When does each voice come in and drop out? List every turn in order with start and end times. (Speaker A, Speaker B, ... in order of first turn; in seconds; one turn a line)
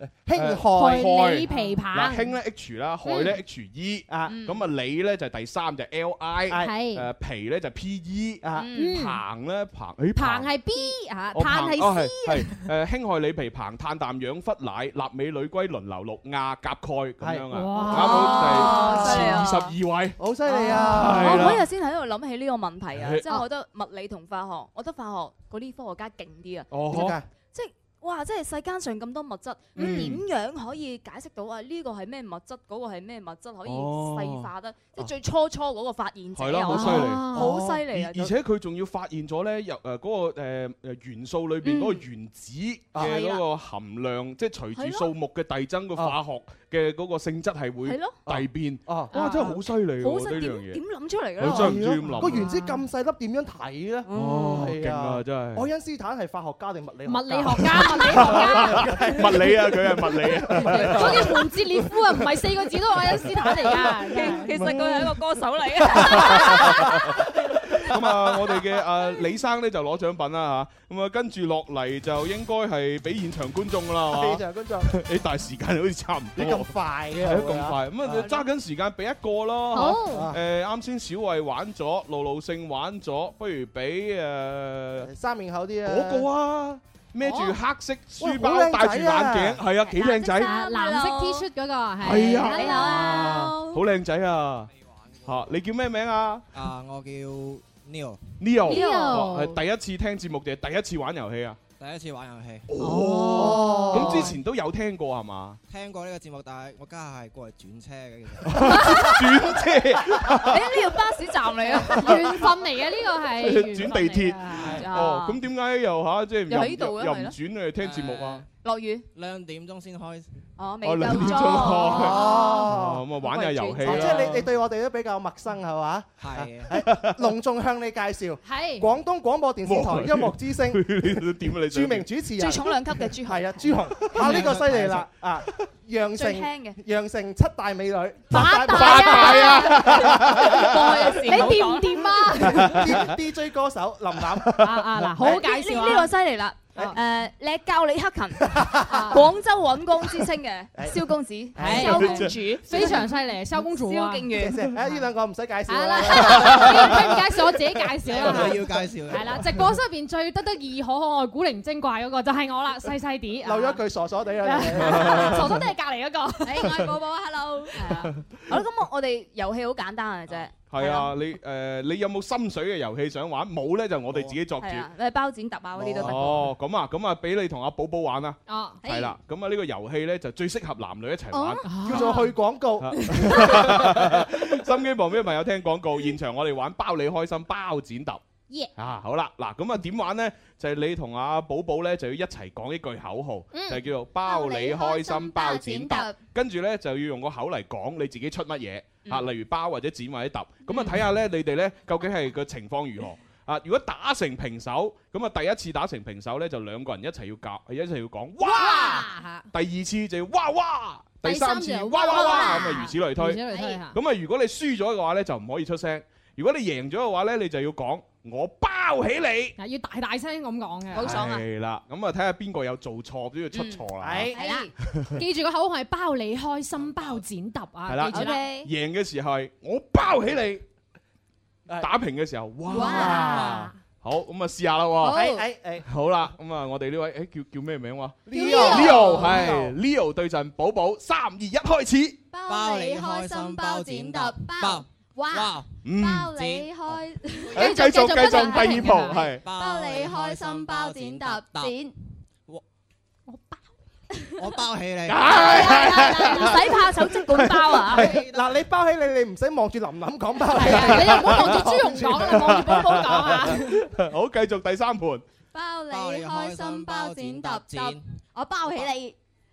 Speaker A: 0.2-1.7
Speaker B: 0.3-10.5
Speaker C: 0.7-2.3
Speaker D: 3.1-3.3
Speaker A: 4.1-4.3
Speaker D: 4.2-4.6
Speaker C: 6.6-7.1
Speaker D: 8.5-9.0
Speaker C: 8.8-9.2
Speaker C: 10.2-12.7
Speaker B: 11.3-20.2
Speaker A: 17.2-19.4
Speaker C: 17.5-18.6
Speaker D: 17.8-19.7
Speaker A: 20.2-21.5
Speaker D: 20.5-26.7
Speaker B: 20.7-21.6
Speaker B: 22.9-23.4
Speaker B: 26.7-27.2
Speaker A: 26.9-27.2
Speaker D: 27.5-38.3
Speaker C: 29.8-30.1
Speaker B: 29.8-30.2
Speaker B: 33.6-34.5
Speaker B: 36.3-50.8
Speaker C: 36.7-37.5
Speaker A: 37.3-37.8
Speaker D: 41.6-42.0
Speaker D: 43.0-43.4
Speaker D: 44.7-45.1
Speaker D: 47.8-48.2
Speaker A: 48.2-49.1
Speaker C: 49.1-49.5
Speaker D: 50.0-51.8
Speaker B: 51.4-52.5
Speaker A: 51.4-61.3
Speaker C: 52.2-52.8
Speaker D: 54.0-54.7
Speaker B: 54.1-55.7
Speaker C: 57.0-59.1
Speaker B: 58.0-61.3
Speaker D: 60.7-61.3
Speaker C: 60.9-64.7
Speaker D: 64.0-67.1
Speaker A: 64.5-65.2
Speaker A: 65.8-67.1
Speaker A: 67.8-68.1
Speaker B: 67.9-85.1
Speaker A: 74.1-74.9
Speaker A: 76.4-78.3
Speaker C: 79.7-80.3
Speaker A: 80.1-80.4
Speaker A: 85.0-86.3
Speaker B: 85.8-90.5
Speaker C: 87.2-87.5
Speaker A: 88.2-89.6
Speaker D: 89.8-91.5
Speaker E: 90.0-90.7
Speaker C: 90.5-93.0
Speaker B: 92.0-94.7
Speaker D: 92.4-93.6
Speaker E: 92.6-93.8
Speaker F: 94.7-95.6
Speaker B: 95.2-96.4
Speaker F: 96.5-98.4
Speaker B: 98.4-101.6
Speaker C: 98.7-99.6
Speaker D: 98.7-99.2
Speaker F: 101.8-102.7
Speaker B: 102.7-105.6
Speaker C: 102.8-104.0
Speaker A: 103.3-104.3
Speaker F: 105.7-108.7
Speaker B: 108.4-110.8
Speaker D: 110.3-112.3
Speaker C: 111.7-114.7
Speaker B: 111.9-112.4
Speaker B: 113.4-118.4
Speaker F: 114.6-114.8
Speaker D: 114.6-115.4
Speaker D: 116.5-117.3
Speaker F: 117.8-118.5
Speaker D: 118.6-119.0
Speaker F: 119.1-120.3
Speaker D: 120.6-122.7
Speaker B: 120.8-124.4
Speaker A: 121.9-123.0
Speaker D: 123.2-124.4
Speaker A: 123.8-132.7
Speaker F: 126.2-126.8
Speaker B: 126.7-127.3
Speaker C: 128.4-128.9
Speaker B: 129.6-132.1
Speaker D: 132.3-134.4
Speaker A: 133.2-140.6
Speaker F: 134.1-135.1
Speaker D: 136.1-136.8
Speaker C: 138.3-140.0
Speaker B: 138.7-141.0
Speaker D: 138.8-142.3
Speaker C: 141.1-142.9
Speaker B: 142.4-143.2
Speaker A: 142.5-145.4
Speaker C: 144.6-146.1
Speaker D: 145.2-154.6
Speaker A: 148.4-149.2
Speaker C: 148.9-149.2
Speaker A: 150.8-151.0
Speaker A: 151.5-153.0
Speaker C: 151.6-154.3
Speaker A: 154.4-157.2
Speaker C: 155.7-163.8
Speaker F: 158.1-159.6
Speaker A: 163.4-165.4
Speaker C: 164.4-166.7
Speaker D: 166.4-171.1
Speaker B: 170.7-174.9
Speaker F: 174.1-174.4
Speaker D: 174.6-176.4
Speaker A: 175.8-176.0
Speaker F: 175.8-176.2
Speaker B: 176.0-182.2
Speaker C: 178.5-178.8
Speaker D: 178.8-179.2
Speaker C: 181.3-182.3
Speaker A: 181.8-184.1
Speaker B: 182.8-188.2
Speaker C: 183.2-183.7
Speaker B: 188.8-219.6
Speaker C: 193.5-193.8
Speaker E: 194.2-196.2
Speaker C: 208.5-209.4
Speaker C: 211.2-213.9
Speaker D: 212.0-212.6
Speaker E: 212.1-212.7
Speaker C: 219.6-221.1
Speaker D: 220.9-221.4
Speaker B: 221.0-225.2
Speaker D: 223.5-224.7
Speaker A: 224.0-224.3
Speaker E: 224.3-224.7
Speaker C: 225.2-228.4
Speaker F: 226.8-227.1
Speaker B: 227.9-230.6
Speaker E: 228.1-228.7
Speaker B: 231.8-233.1
Speaker E: 232.7-233.6
Speaker A: 232.8-233.7
Speaker C: 233.1-233.7
Speaker B: 234.0-235.2
Speaker A: 235.0-235.8
Speaker E: 235.0-235.4
Speaker B: 235.8-242.2
Speaker A: 238.3-239.7
Speaker E: 238.3-239.4
Speaker E: 242.3-251.9
Speaker F: 242.5-245.8
Speaker B: 245.8-246.3
Speaker F: 246.3-247.1
Speaker B: 247.5-249.4
Speaker C: 247.6-249.3
Speaker F: 249.3-251.7
Speaker C: 253.3-253.6
Speaker E: 254.1-254.6
Speaker F: 254.4-255.3
Speaker B: 255.1-258.0
Speaker D: 255.3-258.1
Speaker E: 255.3-256.7
Speaker A: 257.9-262.3
Speaker F: 258.0-258.6
Speaker C: 260.5-263.8
Speaker B: 260.7-261.6
Speaker B: 262.1-265.2
Speaker E: 265.5-269.1
Speaker F: 265.9-268.0